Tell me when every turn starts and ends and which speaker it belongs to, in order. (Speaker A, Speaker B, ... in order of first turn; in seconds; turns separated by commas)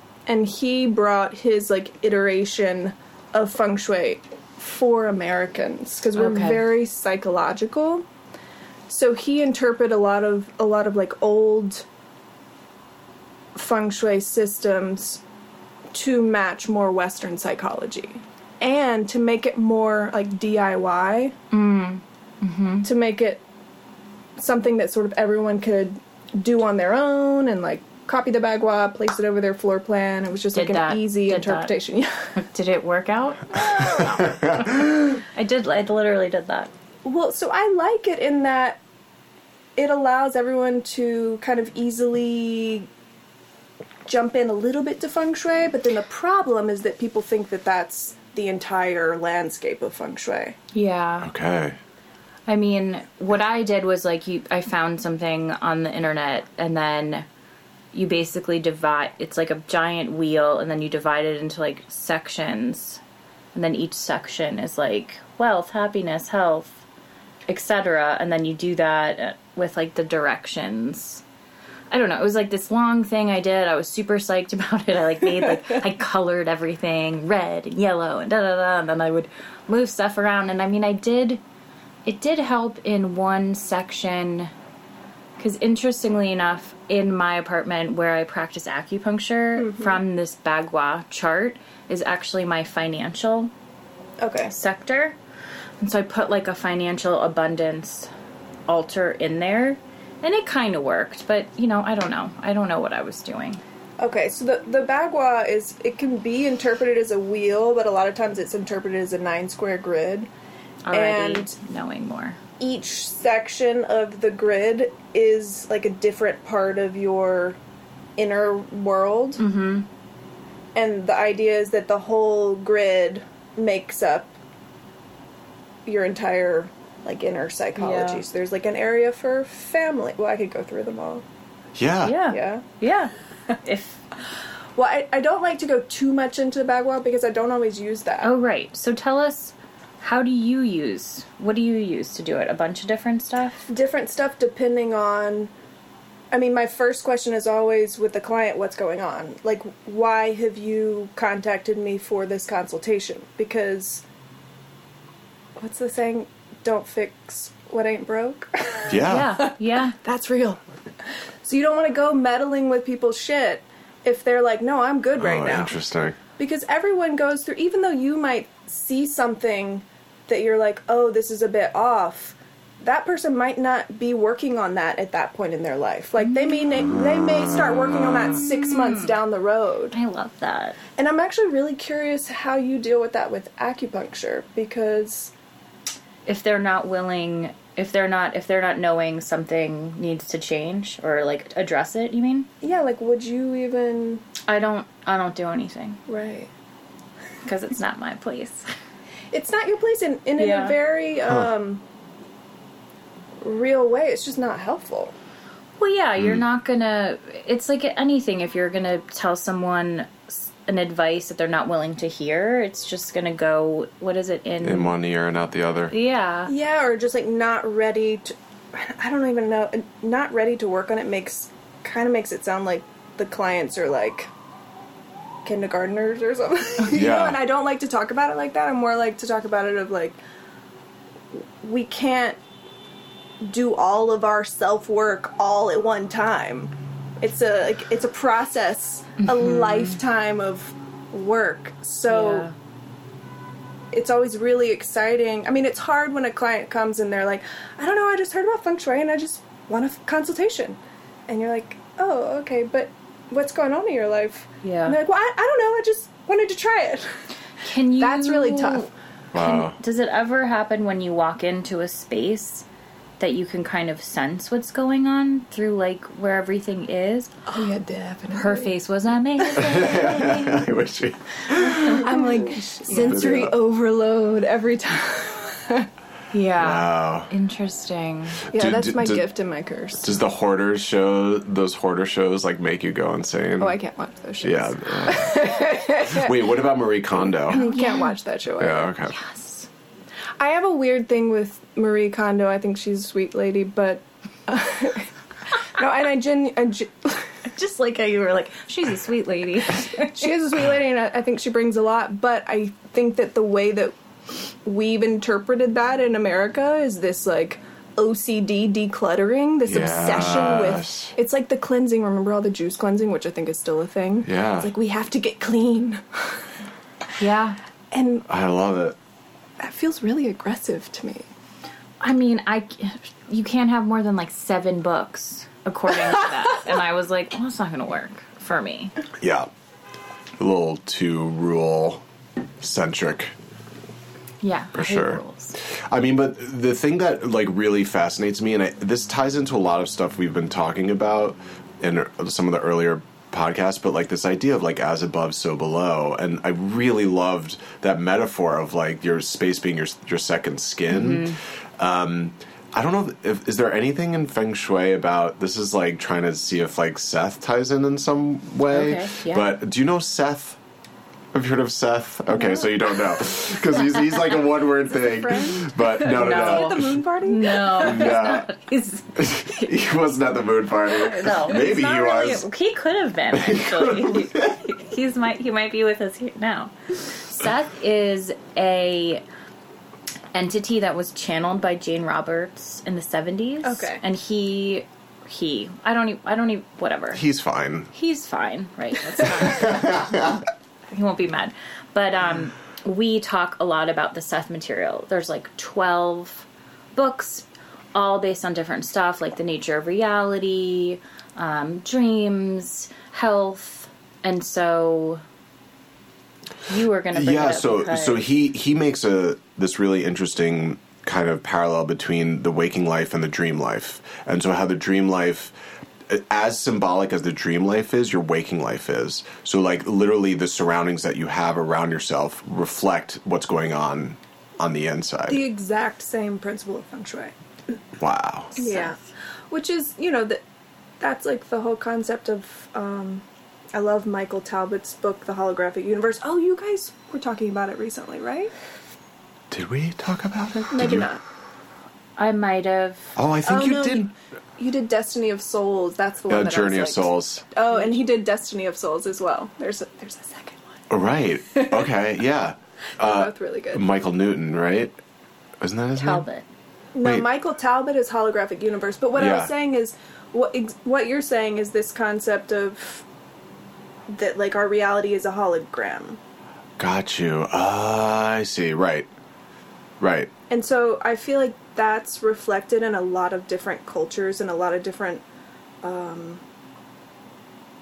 Speaker A: 0.3-8.1, Speaker B: 6.2-6.7, Speaker A: 8.9-11.8, Speaker A: 13.5-15.2, Speaker A: 15.9-21.3, Speaker B: 21.5-22.9, Speaker A: 22.8-23.4, Speaker A: 24.4-32.3, Speaker B: 30.5-31.7, Speaker B: 32.4-36.7, Speaker A: 33.5-34.2, Speaker C: 34.0-35.2, Speaker A: 37.0-38.8, Speaker A: 39.8-42.9, Speaker A: 44.1-50.5, Speaker B: 50.7-51.3, Speaker C: 51.2-51.8, Speaker B: 52.5-57.2, Speaker B: 57.9-63.0, Speaker B: 63.5-66.8, Speaker B: 67.5-71.2, Speaker B: 71.9-81.4, Speaker B: 82.0-84.5, Speaker B: 85.4-93.5, Speaker A: 89.6-90.0, Speaker A: 94.2-94.5, Speaker B: 94.5-95.2, Speaker B: 95.8-98.1, Speaker B: 98.7-103.6, Speaker A: 104.0-110.3, Speaker B: 110.8-112.4, Speaker A: 110.9-111.5, Speaker A: 112.6-117.6, Speaker A: 118.2-119.4, Speaker B: 119.4-119.9, Speaker A: 120.8-124.3, Speaker A: 125.8-131.2, Speaker B: 127.8-128.2, Speaker C: 131.7-132.2, Speaker B: 132.0-134.1, Speaker A: 132.3-132.6, Speaker A: 134.8-138.3, Speaker B: 138.2-143.7, Speaker A: 143.7-145.5, Speaker A: 146.3-154.0, Speaker A: 155.6-160.6, Speaker C: 158.9-159.4, Speaker B: 159.0-160.0, Speaker A: 161.4-165.7, Speaker C: 165.2-166.2, Speaker A: 166.4-180.0, Speaker B: 178.4-179.2, Speaker B: 179.9-180.8, Speaker A: 181.0-185.3, Speaker B: 186.2-192.5, Speaker A: 192.6-194.2, Speaker B: 194.5-196.0, Speaker A: 196.1-196.5, Speaker B: 197.4-198.7, Speaker A: 199.3-201.8, Speaker B: 200.4-200.8, Speaker A: 203.4-205.1, Speaker B: 205.8-214.9, Speaker C: 214.6-215.9, Speaker B: 215.9-216.5, Speaker A: 216.4-224.3, Speaker A: 225.4-230.2, Speaker C: 226.9-227.4, Speaker A: 231.6-232.4, Speaker A: 233.4-242.5, Speaker B: 239.2-240.0, Speaker B: 242.1-242.5, Speaker A: 243.9-257.2, Speaker B: 254.6-254.9, Speaker B: 257.6-262.6, Speaker A: 258.0-258.9, Speaker C: 259.3-259.8, Speaker B: 263.2-267.3, Speaker A: 267.5-268.7, Speaker B: 268.3-270.7, Speaker C: 269.6-272.0, Speaker B: 271.8-273.2, Speaker A: 272.0-275.9, Speaker C: 272.9-273.5, Speaker B: 276.3-278.4, Speaker C: 276.6-277.3, Speaker A: 278.5-280.1, Speaker C: 278.5-279.2, Speaker C: 280.0-283.8, Speaker A: 283.6-286.6, Speaker C: 284.4-285.5, Speaker C: 286.0-287.6, Speaker A: 287.5-288.9, Speaker B: 287.5-288.1, Speaker C: 288.6-289.1, Speaker B: 289.1-289.7, Speaker A: 290.4-295.1, Speaker A: 295.6-297.3, Speaker B: 297.5-300.3, Speaker A: 300.1-303.9, Speaker A: 304.6-316.4, Speaker C: 309.7-311.1, Speaker C: 314.2-314.7, Speaker B: 317.2-317.6, Speaker A: 317.9-318.2, Speaker C: 318.3-319.0, Speaker A: 319.6-321.3, Speaker B: 322.0-328.9, Speaker C: 329.2-329.5, Speaker C: 330.4-332.0, Speaker C: 332.6-333.3, Speaker B: 334.4-335.6, Speaker C: 334.7-360.6, Speaker B: 350.9-351.4, Speaker B: 358.7-359.5, Speaker C: 361.3-367.0, Speaker A: 364.9-368.2, Speaker B: 366.0-369.7, Speaker C: 367.7-368.4, Speaker C: 369.2-372.4, Speaker B: 370.9-379.2, Speaker C: 373.3-374.6, Speaker B: 380.3-387.2, Speaker A: 383.6-384.0, Speaker C: 387.1-387.9, Speaker B: 387.9-405.2, Speaker C: 389.4-390.4, Speaker B: 406.7-408.2, Speaker C: 407.1-415.5, Speaker C: 416.1-425.4, Speaker A: 425.3-427.3, Speaker C: 428.0-428.5, Speaker B: 428.6-428.9, Speaker A: 428.6-429.0, Speaker A: 429.5-430.4, Speaker A: 431.0-438.5, Speaker C: 439.5-441.1, Speaker A: 440.7-441.2, Speaker B: 442.2-443.2, Speaker C: 443.1-444.1, Speaker A: 443.4-450.6, Speaker C: 446.3-447.4, Speaker C: 450.9-455.0, Speaker A: 451.5-451.9, Speaker A: 453.0-453.8, Speaker C: 455.6-456.2, Speaker B: 456.0-456.4, Speaker A: 456.9-463.0, Speaker C: 459.2-459.5, Speaker A: 464.1-466.2, Speaker C: 466.8-469.1, Speaker C: 470.0-470.3, Speaker A: 470.5-475.2, Speaker A: 475.8-476.4